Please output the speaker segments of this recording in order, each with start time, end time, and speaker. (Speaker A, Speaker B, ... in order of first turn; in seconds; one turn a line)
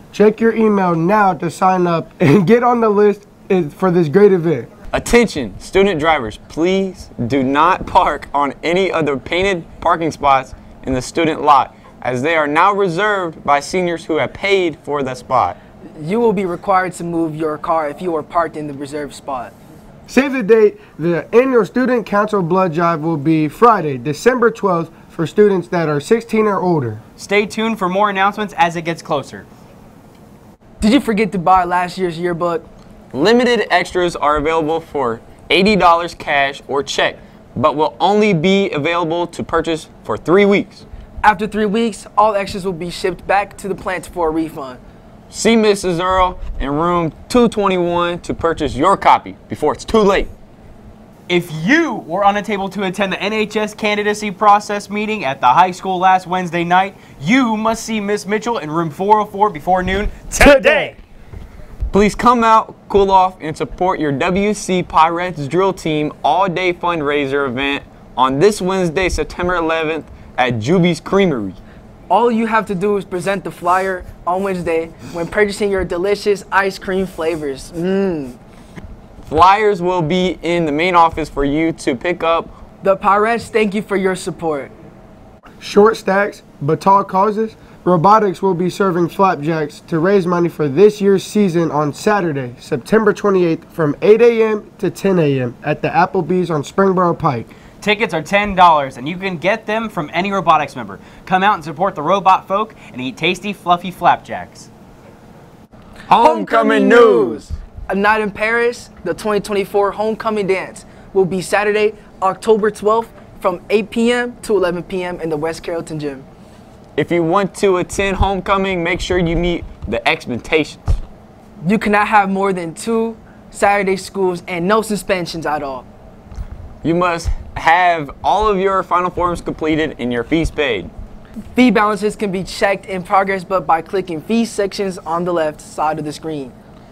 Speaker A: 0.1-4.7
Speaker B: 4.9-15.6
Speaker C: 16.0-19.5
Speaker A: 20.1-27.0
Speaker D: 27.2-29.5
Speaker C: 30.8-32.6
Speaker B: 33.1-40.8
Speaker C: 41.2-44.8
Speaker B: 45.3-50.3
Speaker D: 51.3-61.0
Speaker A: 60.4-60.9
Speaker B: 61.9-71.6
Speaker C: 72.1-78.4
Speaker B: 79.2-82.5
Speaker C: 82.8-84.7
Speaker A: 85.6-97.5
Speaker D: 97.8-104.7
Speaker B: 106.1-107.5
Speaker C: 106.2-116.2
Speaker B: 117.0-121.0
Speaker C: 121.6-125.9
Speaker B: 126.8-130.9
Speaker C: 131.6-136.5